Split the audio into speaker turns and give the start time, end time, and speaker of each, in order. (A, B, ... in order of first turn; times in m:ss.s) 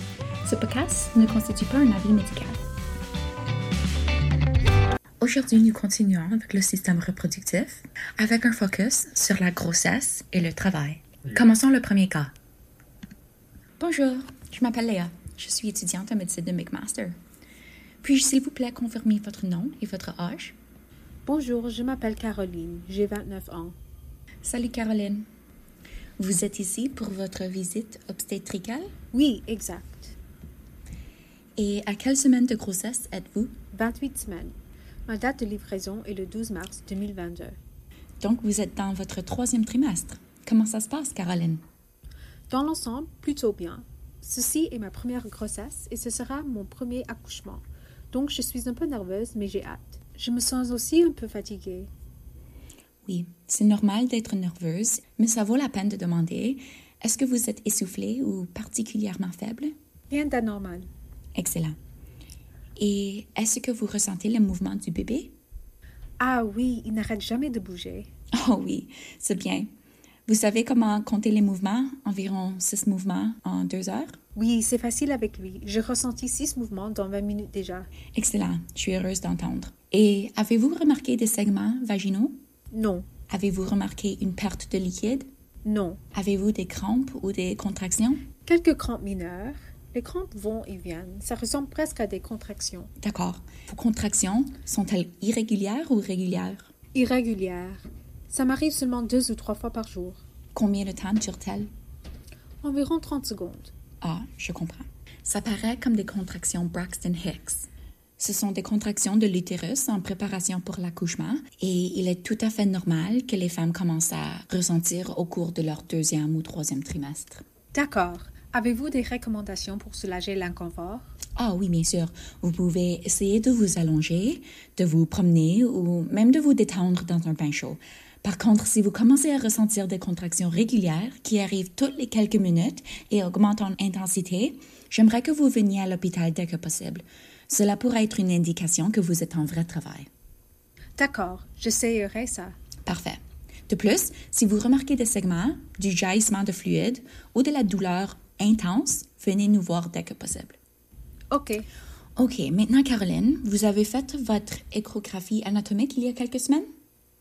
0:00.4-0:02.6 A
0:05.2-0:12.3 A
0:13.8-0:17.2 A
0:18.0-0:20.6 A
0:21.3-0:23.8 B
0:24.4-0:25.3 A
0:26.2-0:28.9 A
0:29.1-0:30.2 B
0:31.6-0:33.6 A
0:33.7-0:34.6 B
0:35.1-0:37.6 B
0:38.2-0:41.6 A
0:42.5-0:51.9 B
0:53.1-0:59.7 A
1:00.1-1:00.9 B
1:01.4-1:01.8 A
1:02.8-1:05.3 A
1:06.2-1:08.1 B
1:08.3-1:09.7 A
1:10.3-1:14.2 A
1:14.4-1:17.9 B
1:18.2-1:22.4 A
1:22.7-1:23.1 B
1:23.3-1:25.3 A
1:25.6-1:26.0 B
1:26.1-1:28.3 A
1:28.5-1:32.9 B
1:33.0-1:36.7 A
1:37.0-1:40.2 B
1:40.6-1:41.7 A
1:42.6-1:43.7 B
1:44.0-1:57.4 A
1:57.7-2:01.1 B
2:01.4-2:20.1 A
2:21.0-2:22.6 B
2:22.9-2:30.6 A
2:31.3-2:31.7 B
2:32.2-2:36.7 A